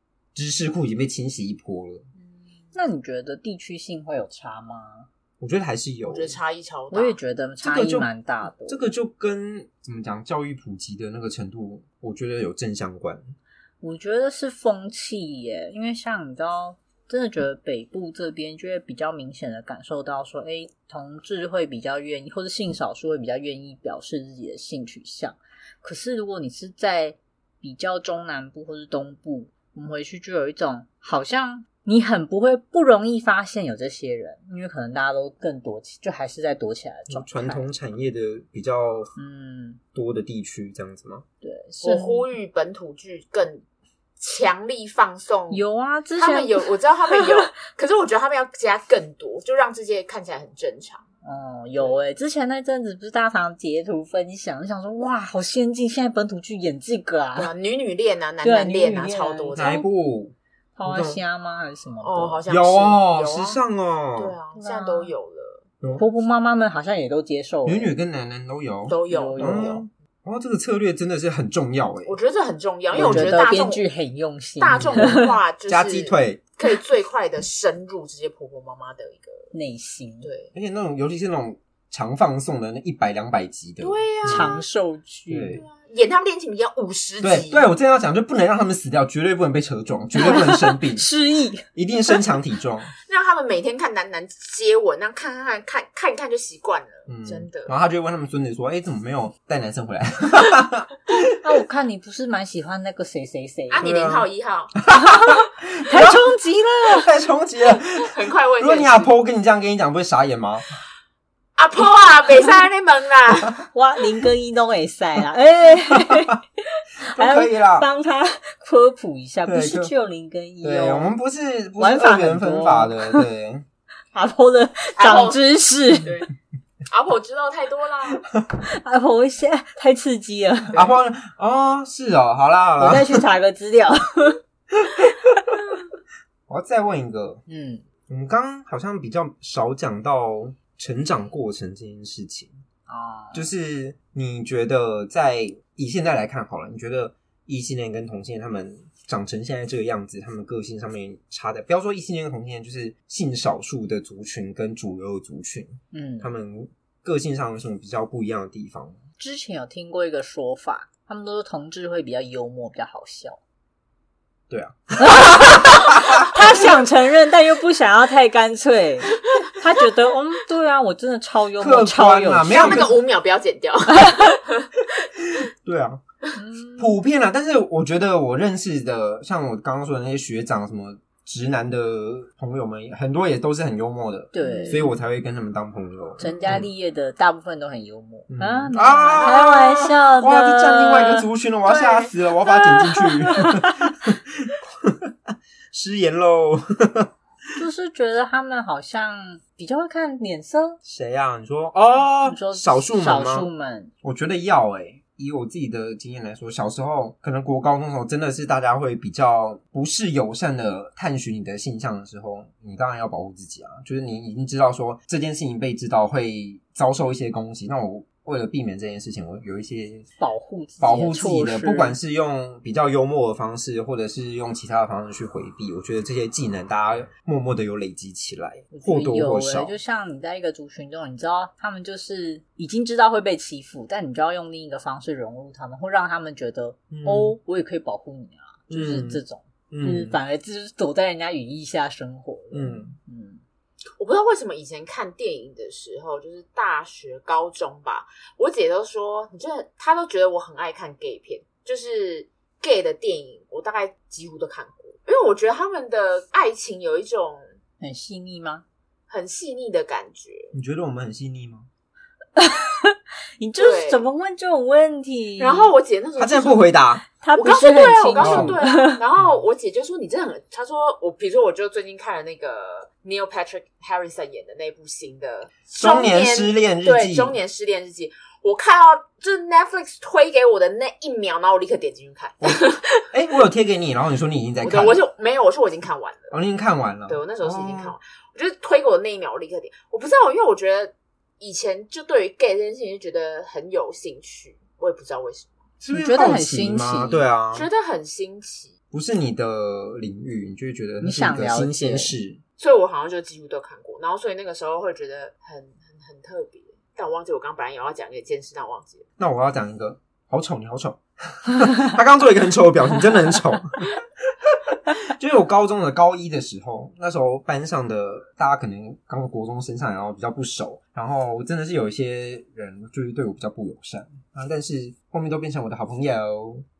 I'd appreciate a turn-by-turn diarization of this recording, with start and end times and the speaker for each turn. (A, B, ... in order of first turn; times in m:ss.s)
0:00.3-0:02.0 A
0:02.2-0:02.6 B
0:02.7-0:05.1 C
0:05.4-0:06.4 A
0:06.1-0:07.2 B
0:06.9-0:08.8 C
0:07.6-0:08.1 A
0:08.6-0:13.3 A
0:13.8-0:37.6 C
0:37.1-0:39.1 A
0:39.2-0:39.8 C
0:39.9-0:41.2 A
0:41.4-0:42.2 C
0:41.8-0:43.6 B
0:44.2-0:45.6 B
0:45.5-0:47.5 C
0:46.2-0:51.0 B
0:51.2-0:57.5 C
0:57.4-0:59.8 B
0:58.4-0:59.9 C
0:59.5-1:01.2 A
1:00.8-1:02.4 C
1:02.0-1:03.6 B
1:02.4-1:04.4 A
1:04.2-1:05.8 B
1:04.6-1:05.1 C
1:06.0-1:07.9 C
1:07.6-1:12.2 A
1:08.9-1:09.8 B
1:09.1-1:09.7 C
1:12.0-1:13.8 B
1:12.9-1:13.4 A
1:12.9-1:15.3 C
1:14.6-1:19.5 B
1:14.7-1:16.4 A
1:19.5-1:20.3 C
1:20.2-1:20.5 B
1:20.5-1:24.5 A
1:23.8-1:24.6 B
1:24.2-1:25.6 C
1:25.3-1:25.6 A
1:25.6-1:27.6 B
1:27.2-1:31.0 A
1:30.1-1:31.6 C
1:31.7-1:32.9 A
1:33.1-1:37.7 B
1:37.1-1:41.3 A
1:41.4-1:43.8 C
1:43.7-1:44.7 B
1:43.8-1:44.3 A
1:44.8-1:46.2 A
1:45.9-1:47.1 C
1:46.8-1:50.6 A
1:48.0-1:49.1 B
1:51.6-1:53.6 B
1:53.7-1:56.4 C
1:55.9-1:56.2 A
1:57.0-1:57.9 A
1:57.1-2:01.1 C
1:59.5-1:59.9 A
2:00.6-2:03.6 A
2:01.8-2:03.2 C
2:04.1-2:06.2 C
2:05.0-2:05.4 B
2:06.9-2:08.2 B
2:08.7-2:10.8 C
2:10.7-2:13.2 A
2:12.8-2:14.4 C
2:14.7-2:15.1 A
2:16.5-2:17.4 A
2:17.5-2:17.8 C
2:18.1-2:22.5 A
2:22.9-2:23.5 C
2:23.3-2:39.0 A
2:35.9-2:36.3 C
2:39.2-2:43.4 C
2:44.5-2:46.3 A
2:45.0-2:52.9 C
2:51.6-2:53.0 A
2:52.5-2:54.7 B
2:55.6-2:56.0 A
2:56.4-2:57.0 C
2:56.8-3:06.7 A
3:04.3-3:04.9 C
3:04.4-3:04.8 B
3:06.2-3:11.3 C
3:08.3-3:17.1 A
3:11.6-3:13.4 B
3:17.6-3:20.8 C
3:20.8-3:23.5 A
3:22.2-3:23.9 C
3:24.0-3:40.0 A
3:40.2-3:42.0 C
3:40.8-3:49.7 A
3:48.7-4:03.4 C
3:56.9-3:57.4 A
3:58.7-4:00.2 A
4:02.5-4:02.9 A
4:04.0-4:17.4 B
4:17.8-4:18.6 C
4:19.1-4:20.5 B
4:20.5-4:21.7 A
4:22.4-4:25.7 C
4:23.6-4:24.0 B
4:25.4-4:26.7 B
4:26.2-4:27.0 A
4:27.2-4:29.0 C
4:27.3-4:43.1 B
4:28.2-4:28.6 A
4:35.8-4:37.4 A
4:42.4-4:45.0 A
4:44.6-4:46.4 B
4:46.3-4:47.9 A
4:47.1-4:55.6 B
4:55.8-4:57.7 A
4:55.9-4:57.2 C
4:57.5-4:58.7 B
4:58.9-5:02.4 A
5:01.0-5:02.1 C
5:02.6-5:09.0 B
5:09.2-5:13.9 A
5:14.9-5:26.6 A